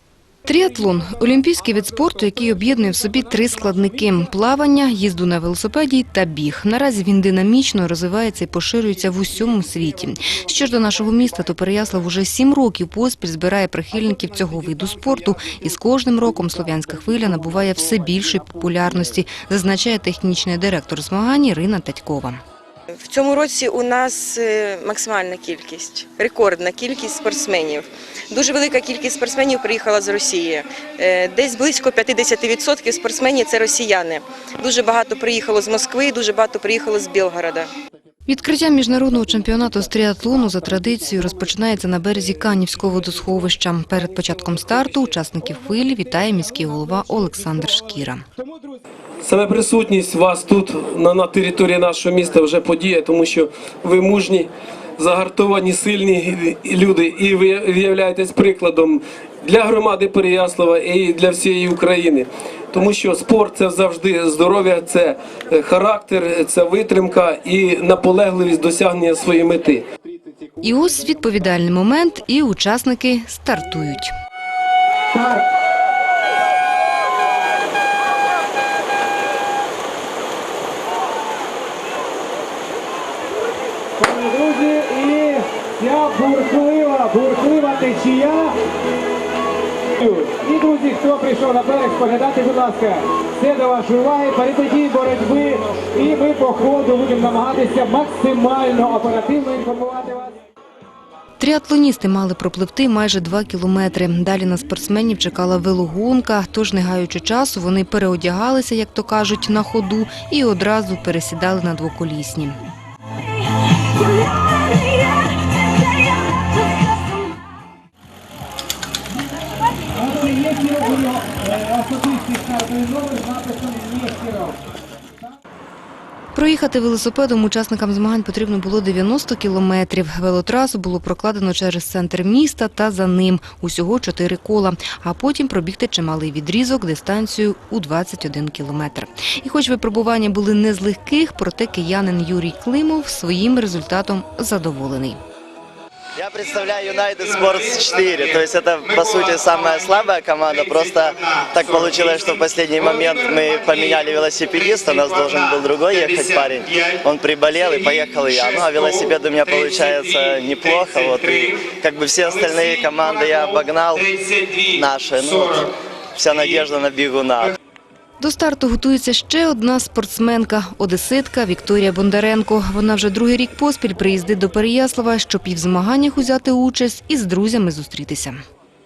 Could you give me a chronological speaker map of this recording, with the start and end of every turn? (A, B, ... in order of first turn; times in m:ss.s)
0:00.4-0:22.4 A
0:23.0-0:37.7 B
0:38.3-0:48.2 A
0:49.2-1:09.8 C
1:10.6-1:14.1 A
1:24.0-1:28.6 D
1:30.0-1:40.3 D
1:41.4-1:52.6 A
2:00.0-2:04.5 D
2:06.3-2:25.2 A
2:26.2-2:44.1 E
2:44.7-2:47.6 E
2:48.2-2:58.4 A